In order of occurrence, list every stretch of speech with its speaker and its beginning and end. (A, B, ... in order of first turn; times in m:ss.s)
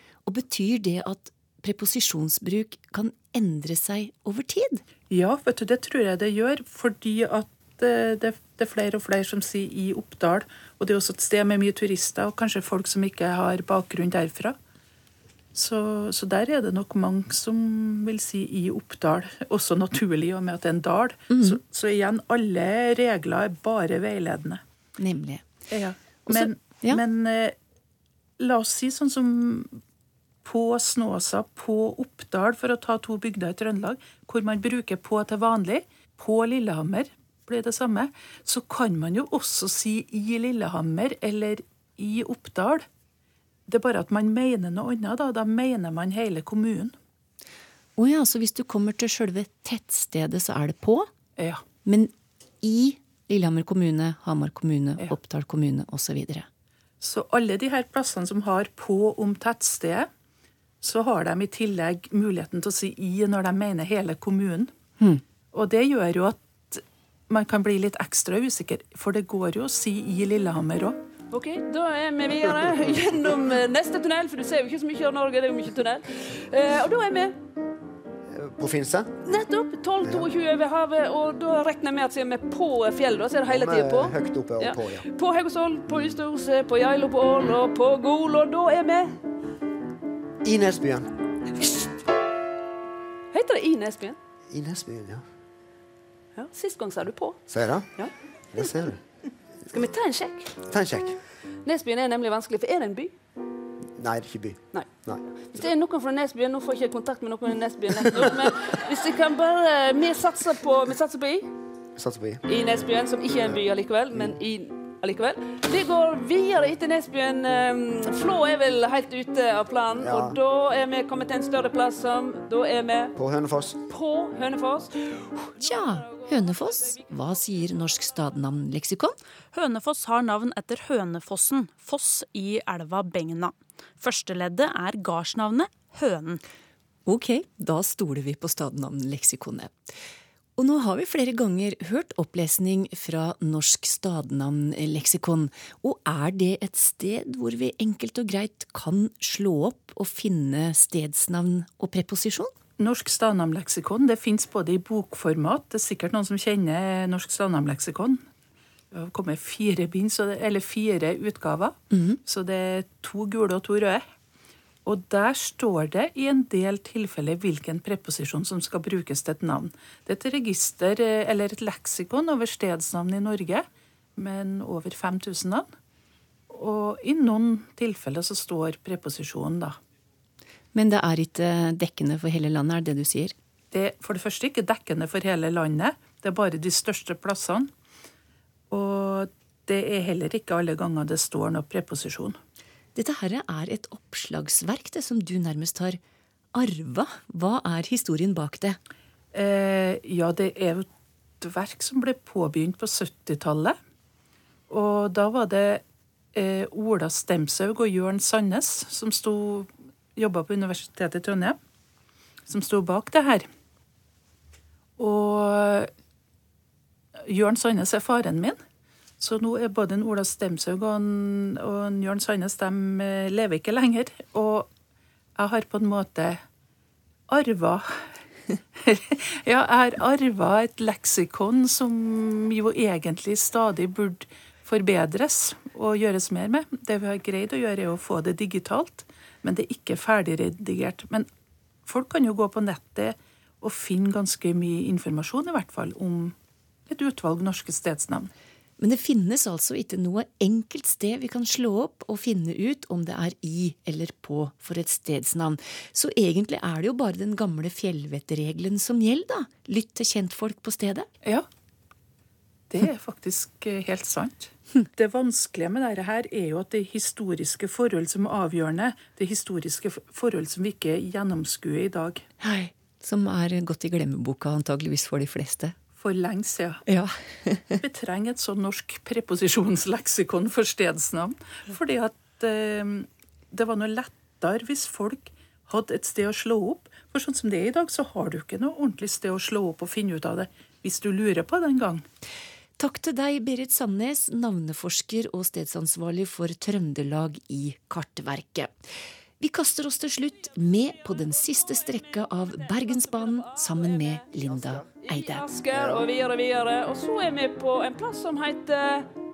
0:00.3-0:04.8 A
0:05.1-0:14.6 B
0:15.6-0:24.6 B
0:21.3-0:21.6 A
0:25.0-0:25.5 A
0:25.7-0:27.6 B
0:26.3-0:27.0 A
0:28.4-0:29.8 B
0:30.4-0:42.9 B
0:43.7-0:46.9 B
0:48.0-0:51.1 A
0:51.4-0:51.6 B
0:51.8-0:56.5 A
0:57.0-1:00.1 B
1:00.8-1:04.7 B
1:05.5-1:11.0 B
1:11.3-1:17.4 C
1:18.3-1:19.2 D
1:19.3-1:29.2 C
1:20.0-1:20.3 D
1:23.5-1:25.1 D
1:30.4-1:31.1 D
1:33.3-1:34.2 C
1:34.5-1:35.2 D
1:36.4-1:37.4 C
1:37.5-1:37.9 D
1:38.5-1:39.0 D
1:39.7-1:40.6 C
1:40.6-1:41.2 D
1:41.6-1:43.1 C
1:44.0-1:45.2 D
1:45.5-1:51.5 C
1:52.0-1:52.4 D
1:52.5-2:03.2 C
2:00.0-2:00.4 D
2:03.2-2:03.8 D
2:03.9-2:06.1 C
2:05.6-2:09.2 A
2:09.5-2:16.4 E
2:17.1-2:19.8 A
2:20.6-2:32.5 A
2:32.8-2:38.2 B
2:38.9-2:44.0 B
2:41.9-2:42.2 A
2:44.8-2:53.6 B
2:54.2-2:55.7 B
2:56.5-2:59.8 B
3:00.7-3:03.4 A
3:03.7-3:07.7 B
3:08.7-3:12.4 B
3:13.0-3:16.0 A
3:16.6-3:18.8 A
3:19.3-3:20.9 B
3:21.4-3:23.8 B
3:24.7-3:25.8 B
3:26.3-3:31.6 B
3:32.5-3:33.5 B
3:35.0-3:35.9 B
3:37.3-3:38.6 B
3:39.2-3:44.7 B
3:45.4-3:46.4 B
3:47.3-3:48.0 B
3:48.8-4:01.3 B
4:01.9-4:06.4 B
4:06.9-4:08.3 B
4:08.8-4:21.1 A
4:22.7-4:32.3 B
4:32.4-4:35.8 A
4:36.0-4:36.8 B
4:36.9-4:37.8 A
4:37.8-4:52.0 B
4:52.8-4:58.7 A
4:59.4-5:05.5 A
5:04.4-5:04.9 D
5:05.0-5:09.1 C
5:05.7-5:06.1 D